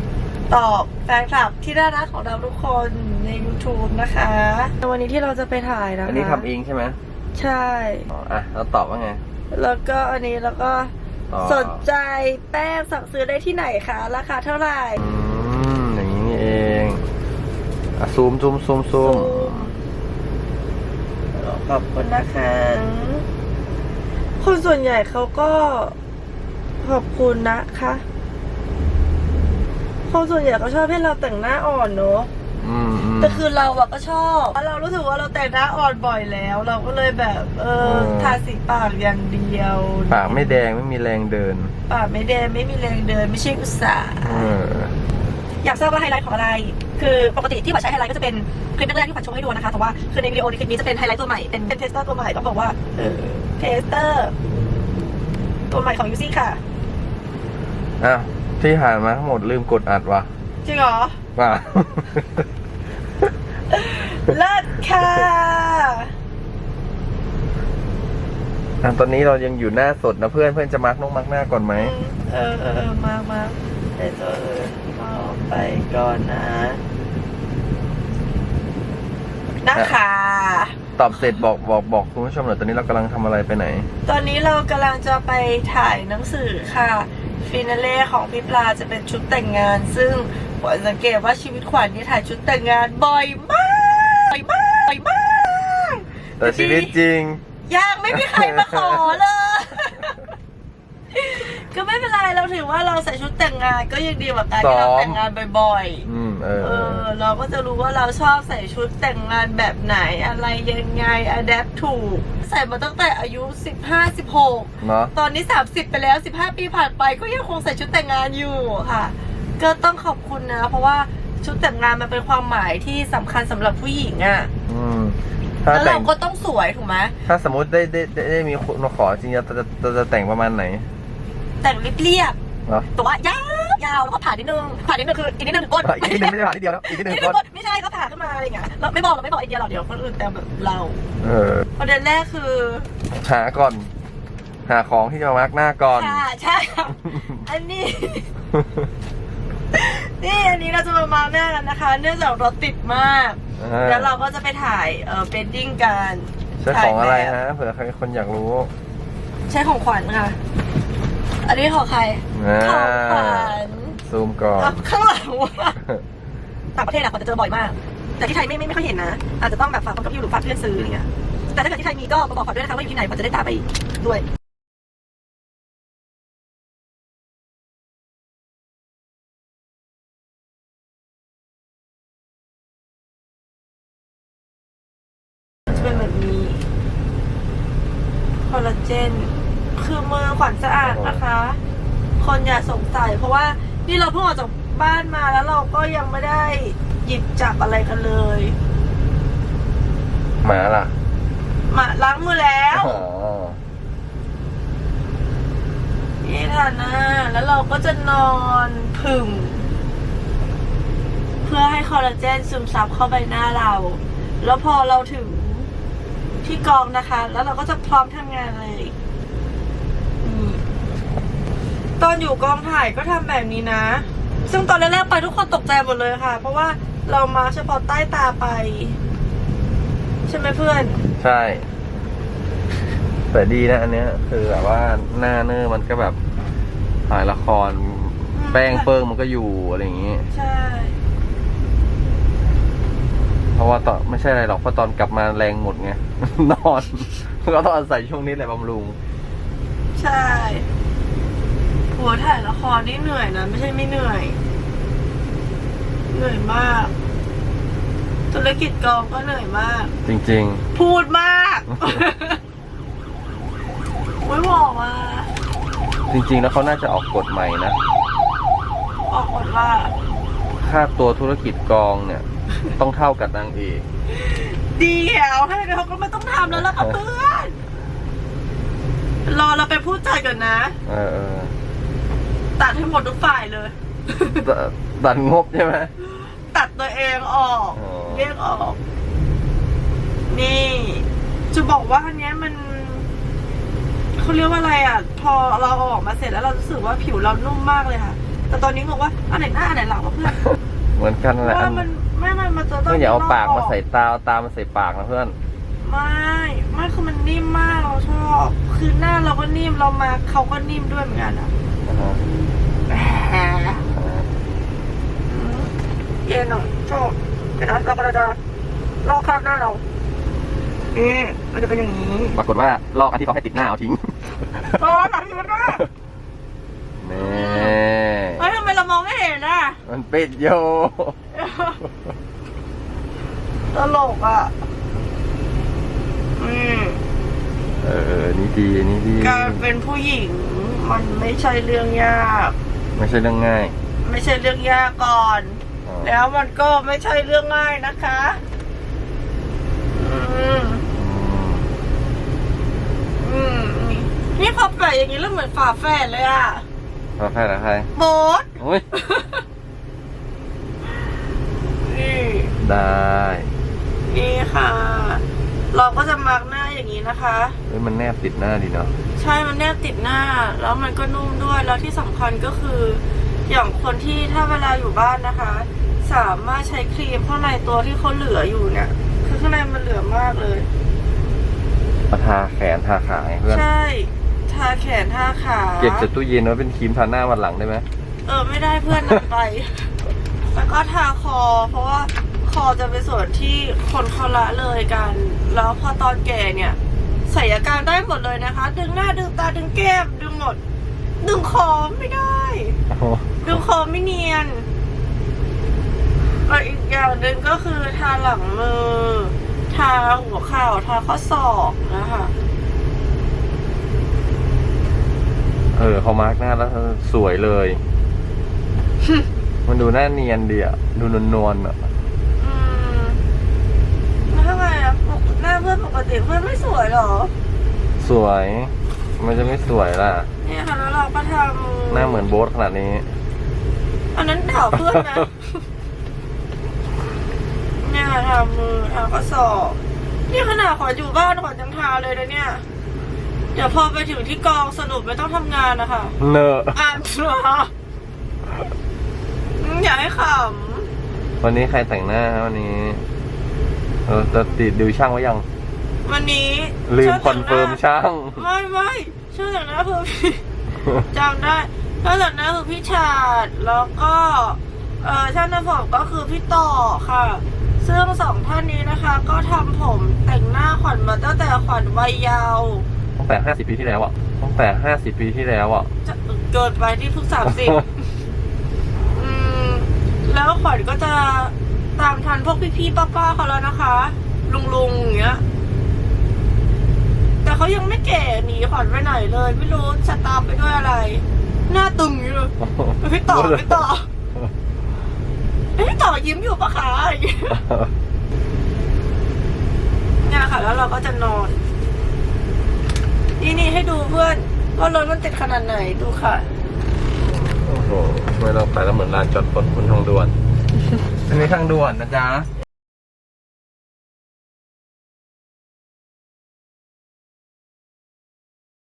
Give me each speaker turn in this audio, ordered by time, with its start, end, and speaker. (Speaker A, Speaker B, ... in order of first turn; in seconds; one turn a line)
Speaker A: 0.5-6.5
Speaker B: 6.0-7.0
Speaker A: 7.3-8.1
Speaker B: 8.1-9.2
Speaker A: 9.5-15.0
Speaker B: 11.3-11.8
Speaker B: 15.0-17.0
Speaker B: 18.0-19.7
Speaker A: 18.9-19.8
Speaker A: 21.3-23.3
Speaker A: 24.4-25.9
Speaker A: 26.8-28.1
Speaker A: 30.1-32.3
Speaker B: 32.6-33.5
Speaker A: 33.2-40.6
Speaker B: 37.8-38.4
Speaker B: 40.1-41.7
Speaker A: 41.9-44.5
Speaker B: 44.2-44.9
Speaker A: 45.6-54.3
Speaker A: 55.7-56.6
Speaker B: 58.0-60.3
Speaker A: 60.6-61.2
Speaker B: 61.4-62.5
Speaker A: 63.7-66.1
Speaker B: 68.8-72.0
Speaker A: 71.8-76.8
Speaker A: 79.6-80.8
Speaker B: 81.0-83.9
Speaker A: 84.1-97.0
Speaker B: 96.4-97.4
Speaker A: 97.7-100.3
Speaker B: 98.1-99.0
Speaker A: 101.1-106.1
Speaker B: 104.6-105.2
Speaker B: 106.0-107.0
Speaker A: 106.6-124.5
Speaker B: 114.8-115.1
Speaker B: 124.7-126.1
Speaker A: 125.7-127.2
Speaker B: 127.3-130.9
Speaker A: 131.6-132.4
Speaker A: 132.9-141.0
Speaker B: 135.8-137.4
Speaker B: 141.2-141.7
Speaker A: 141.8-142.9
Speaker B: 143.2-143.9
Speaker B: 144.7-146.2
Speaker A: 145.9-148.3
Speaker B: 147.1-147.4
Speaker B: 148.5-148.8
Speaker A: 149.7-157.3
Speaker B: 153.6-154.1
Speaker B: 156.6-158.7
Speaker A: 159.5-160.4
Speaker A: 161.4-164.0
Speaker B: 162.3-164.8
Speaker A: 164.6-165.8
Speaker A: 166.8-174.2
Speaker A: 185.7-186.7
Speaker A: 188.5-191.6
Speaker B: 190.8-191.2
Speaker A: 192.2-198.6
Speaker B: 200.4-200.9
Speaker A: 201.7-203.0
Speaker B: 202.7-203.6
Speaker A: 206.2-209.7
Speaker A: 211.4-215.7
Speaker A: 216.4-218.9
Speaker A: 220.2-220.6
Speaker A: 222.0-229.0
Speaker A: 230.3-231.0
Speaker B: 231.2-231.7
Speaker B: 233.3-236.2
Speaker B: 237.1-240.3
Speaker A: 238.3-238.9
Speaker A: 240.3-241.0
Speaker B: 243.6-249.0
Speaker A: 250.0-250.7
Speaker A: 251.9-254.4
Speaker A: 256.1-256.9
Speaker A: 258.3-259.9
Speaker B: 260.1-260.7
Speaker A: 260.7-262.4
Speaker A: 264.2-265.3
Speaker B: 266.1-267.8
Speaker A: 269.1-269.9
Speaker B: 270.6-273.9
Speaker A: 274.1-277.6
Speaker B: 276.6-276.9
Speaker A: 279.3-280.8
Speaker B: 280.9-281.5
Speaker A: 282.6-284.4
Speaker B: 284.2-285.9
Speaker A: 286.1-288.8
Speaker B: 287.8-288.3
Speaker A: 290.3-293.1
Speaker A: 294.2-300.4
Speaker B: 301.0-301.9
Speaker A: 301.4-303.8
Speaker B: 302.9-305.4
Speaker A: 305.8-311.5
Speaker B: 311.8-312.2
Speaker A: 312.9-313.8
Speaker B: 313.9-314.3
Speaker A: 315.3-315.7
Speaker A: 316.2-318.4
Speaker A: 319.0-319.8
Speaker A: 320.9-322.4
Speaker B: 322.3-324.8
Speaker A: 324.7-325.9
Speaker B: 327.0-328.5
Speaker A: 327.1-327.8
Speaker A: 328.4-329.8
Speaker B: 329.9-331.2
Speaker A: 331.4-331.8
Speaker A: 333.7-334.5
Speaker A: 336.4-337.0
Speaker B: 337.8-339.7
Speaker A: 339.2-342.5
Speaker B: 342.9-343.8
Speaker A: 344.0-348.4
Speaker B: 345.9-346.1
Speaker A: 349.9-350.8
Speaker B: 350.9-351.7
Speaker A: 353.2-356.6
Speaker B: 357.2-357.9
Speaker A: 357.9-359.4
Speaker B: 358.6-358.9
Speaker A: 361.8-362.5
Speaker B: 362.6-363.5
Speaker A: 364.1-367.6
Speaker B: 367.7-368.9
Speaker A: 369.2-380.7
Speaker B: 382.1-383.6
Speaker A: 383.5-386.1
Speaker B: 385.8-387.9
Speaker A: 388.2-389.9
Speaker A: 390.5-400.6
Speaker A: 401.2-402.8
Speaker B: 402.9-403.6
Speaker A: 403.4-404.7
Speaker A: 406.5-412.3
Speaker B: 415.7-417.8
Speaker B: 419.7-421.9
Speaker A: 422.4-423.2
Speaker A: 424.3-427.3
Speaker B: 428.0-430.3
Speaker A: 430.4-432.2
Speaker B: 431.9-433.1
Speaker A: 434.1-435.6
Speaker A: 437.8-442.6
Speaker A: 443.5-446.2
Speaker B: 446.2-446.8
Speaker A: 446.7-447.7
Speaker A: 449.6-450.9
Speaker B: 451.4-453.1
Speaker B: 454.1-455.5
Speaker A: 456.0-457.8
Speaker B: 456.9-458.5
Speaker A: 458.4-460.4
Speaker A: 461.1-472.9
Speaker B: 473.2-475.9
Speaker A: 476.1-477.8
Speaker A: 479.1-485.4
Speaker A: 487.4-494.1
Speaker B: 492.6-493.8
Speaker A: 495.8-497.6
Speaker B: 497.5-497.9
Speaker A: 500.2-501.6
Speaker A: 503.4-506.4
Speaker B: 507.6-510.3
Speaker B: 511.2-512.5